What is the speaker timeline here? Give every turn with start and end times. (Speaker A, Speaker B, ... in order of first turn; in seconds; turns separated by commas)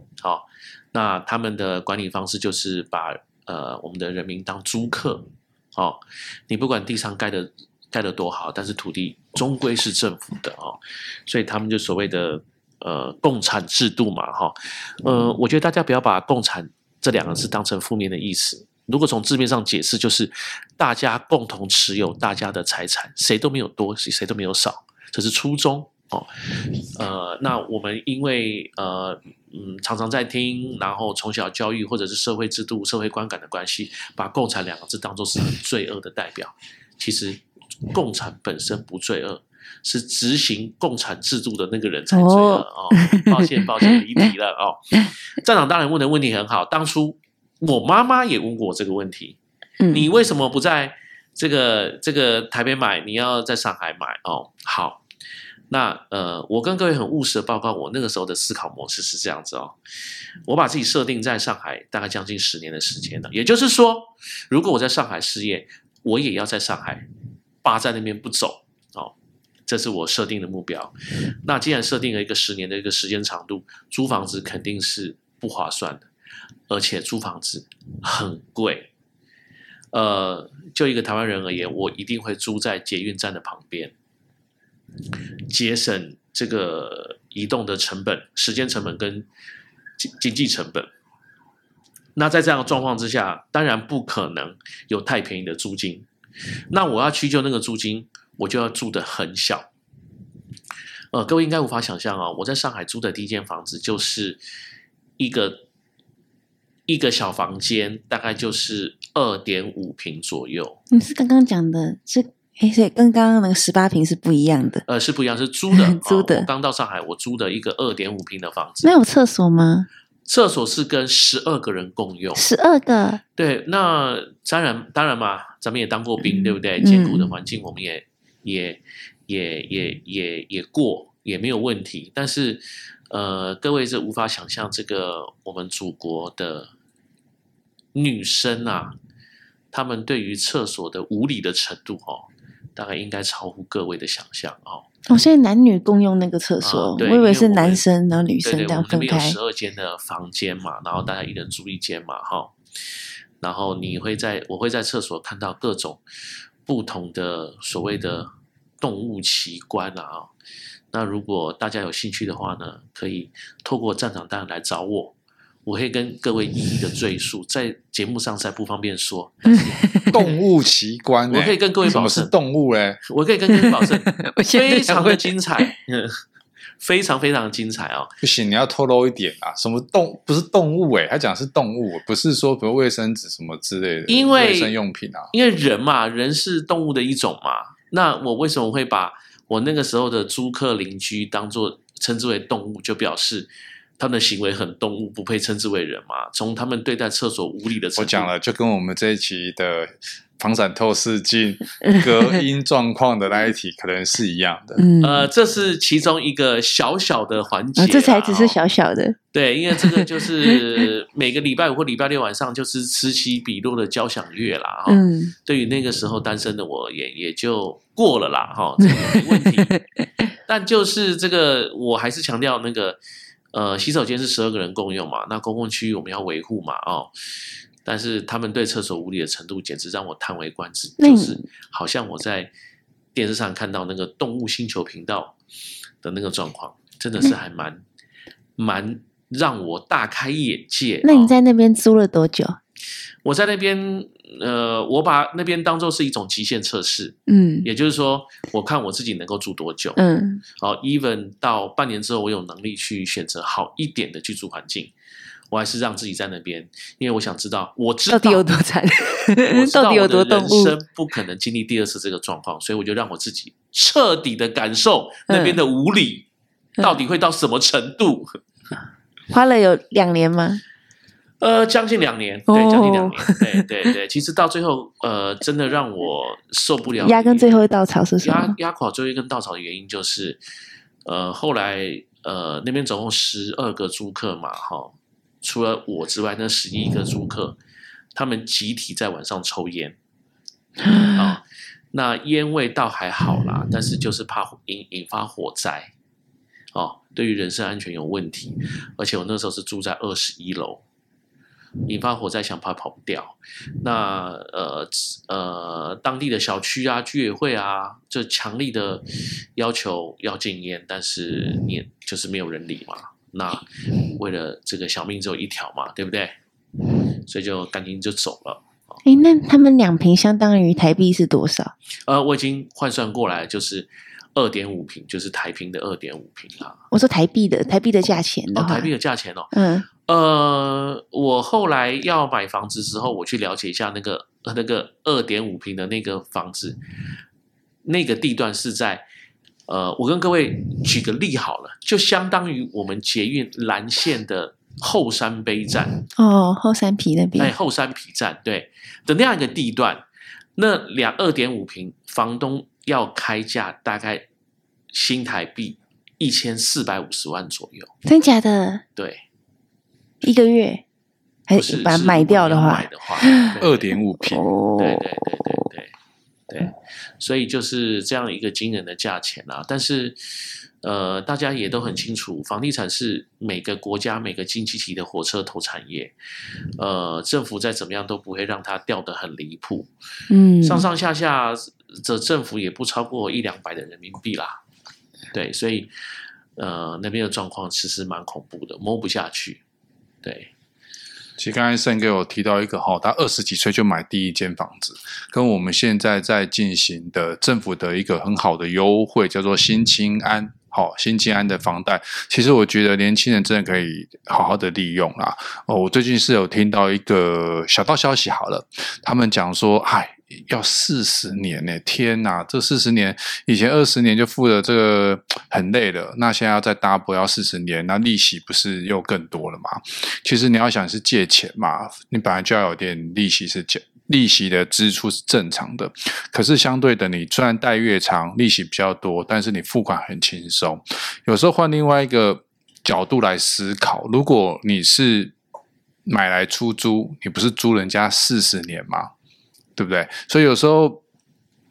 Speaker A: 0.2-26.3, Speaker A: 26.9-49.4, Speaker B: 42.1-43.3, Speaker B: 49.8-50.0, Speaker A: 49.9-55.0, Speaker A: 55.7-59.8, Speaker A: 60.4-67.0, Speaker A: 67.6-69.1, Speaker A: 69.7-76.1, Speaker A: 76.7-78.9, Speaker A: 79.9-83.9, Speaker A: 85.5-89.3, Speaker A: 90.0-90.9, Speaker A: 92.2-96.1, Speaker A: 96.7-99.7, Speaker A: 101.1-104.4, Speaker A: 105.2-105.6, Speaker A: 106.9-110.8, Speaker B: 110.9-114.8, Speaker A: 114.9-118.9, Speaker B: 115.7-116.5, Speaker B: 118.8-119.9, Speaker A: 120.3-122.5, Speaker B: 122.3-123.2, Speaker A: 123.3-136.7, Speaker B: 126.2-127.3, Speaker A: 137.9-138.9, Speaker A: 139.7-144.9, Speaker B: 145.1-149.4, Speaker A: 146.6-147.8, Speaker A: 148.4-152.5, Speaker A: 153.4-156.0, Speaker A: 156.7-158.3, Speaker A: 158.8-160.3, Speaker A: 160.9-165.1, Speaker A: 165.7-170.4, Speaker C: 170.1-173.0, Speaker A: 171.3-172.3, Speaker A: 173.1-176.2, Speaker B: 173.5-175.7, Speaker A: 176.8-178.1, Speaker C: 178.2-185.3, Speaker A: 184.1-184.7, Speaker A: 185.3-198.3, Speaker C: 198.0-204.8, Speaker B: 201.9-202.4, Speaker B: 204.8-205.3, Speaker A: 205.0-208.6, Speaker B: 207.8-209.2, Speaker A: 209.3-219.8, Speaker B: 209.7-210.0, Speaker B: 214.9-215.3, Speaker B: 218.9-219.7, Speaker A: 220.5-223.0, Speaker A: 223.5-227.1, Speaker A: 227.8-232.5, Speaker B: 231.0-231.4, Speaker A: 233.1-235.3, Speaker A: 236.0-237.8, Speaker A: 238.6-241.3, Speaker B: 241.0-242.6, Speaker A: 243.2-250.0, Speaker B: 247.3-247.7, Speaker B: 250.0-250.4, Speaker A: 250.6-254.9, Speaker A: 255.5-258.5, Speaker B: 258.1-260.7, Speaker A: 259.4-266.3, Speaker B: 265.3-265.6, Speaker A: 266.8-268.4, Speaker B: 269.3-270.6, Speaker A: 271.4-277.6, Speaker B: 272.5-273.4, Speaker B: 277.0-278.6, Speaker A: 278.2-280.4, Speaker A: 281.0-287.6, Speaker A: 288.1-289.9, Speaker B: 290.8-291.2, Speaker A: 291.1-295.9, Speaker A: 296.7-300.8, Speaker A: 301.9-309.0, Speaker A: 309.6-316.3, Speaker A: 317.2-319.0, Speaker B: 319.0-321.7, Speaker A: 322.1-326.8, Speaker B: 326.9-328.9, Speaker A: 328.5-329.5, Speaker B: 329.5-329.9, Speaker A: 330.0-336.8, Speaker A: 337.8-339.0, Speaker A: 339.7-346.0, Speaker B: 346.2-347.5, Speaker A: 347.4-350.0, Speaker A: 350.6-354.2, Speaker A: 354.9-357.9, Speaker B: 358.1-358.8, Speaker A: 358.9-359.2, Speaker B: 360.2-360.8, Speaker B: 361.5-363.5, Speaker A: 361.5-363.9, Speaker C: 363.6-364.4, Speaker B: 364.2-365.5, Speaker A: 364.8-365.9, Speaker A: 366.5-370.2, Speaker A: 370.8-376.1, Speaker A: 376.8-379.9, Speaker B: 380.3-380.9, Speaker A: 380.6-384.6, Speaker A: 385.3-385.9, Speaker A: 386.6-389.6, Speaker A: 390.2-390.5, Speaker C: 391.4-435.3, Speaker C: 436.1-439.1, Speaker C: 439.8-441.0